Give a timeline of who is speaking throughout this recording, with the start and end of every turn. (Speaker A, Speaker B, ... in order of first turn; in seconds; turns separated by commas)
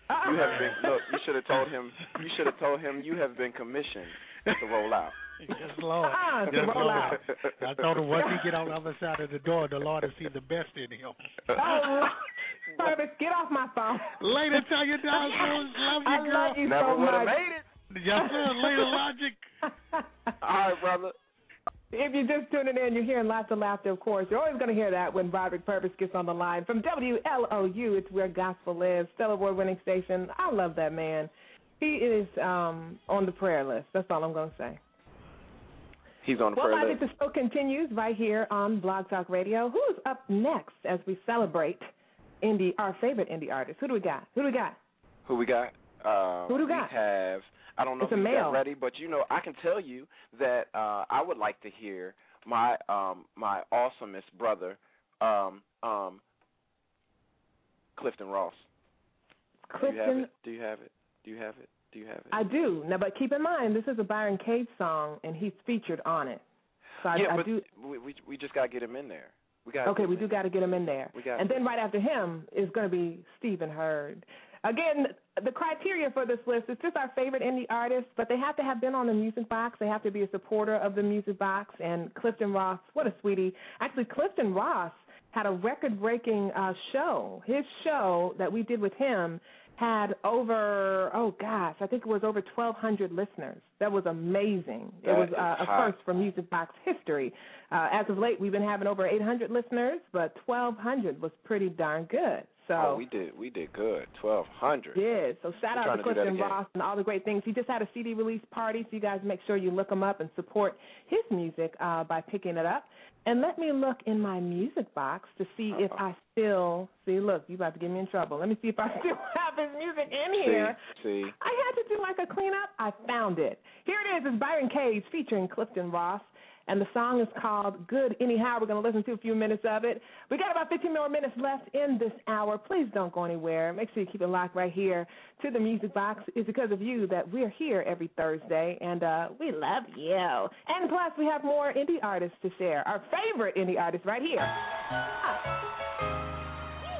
Speaker A: 0.1-0.9, Speaker B: 0.2-5.2, Speaker C: 0.3-0.8, Speaker C: 5.4-11.2, Speaker A: 6.0-7.2, Speaker B: 6.5-8.2, Speaker B: 11.5-12.0, Speaker A: 11.6-12.2, Speaker A: 12.8-14.2, Speaker C: 14.2-16.6, Speaker A: 15.1-17.4, Speaker B: 16.6-17.6, Speaker C: 17.9-19.4, Speaker A: 18.1-19.0, Speaker B: 20.4-21.1, Speaker A: 21.9-34.8, Speaker B: 36.2-37.0, Speaker A: 36.5-41.9, Speaker A: 42.4-44.8, Speaker B: 45.2-56.2, Speaker A: 46.5-46.9, Speaker A: 48.0-48.6, Speaker B: 58.0-58.6, Speaker A: 59.7-60.3, Speaker B: 59.8-62.4, Speaker A: 62.3-66.4, Speaker A: 67.0-67.6, Speaker B: 67.1-70.4, Speaker A: 69.8-103.0, Speaker B: 71.1-71.6, Speaker B: 95.0-96.0, Speaker B: 102.8-105.0, Speaker A: 104.9-120.8, Speaker B: 105.7-106.6, Speaker B: 115.7-116.0, Speaker B: 120.3-121.3, Speaker A: 121.4-144.5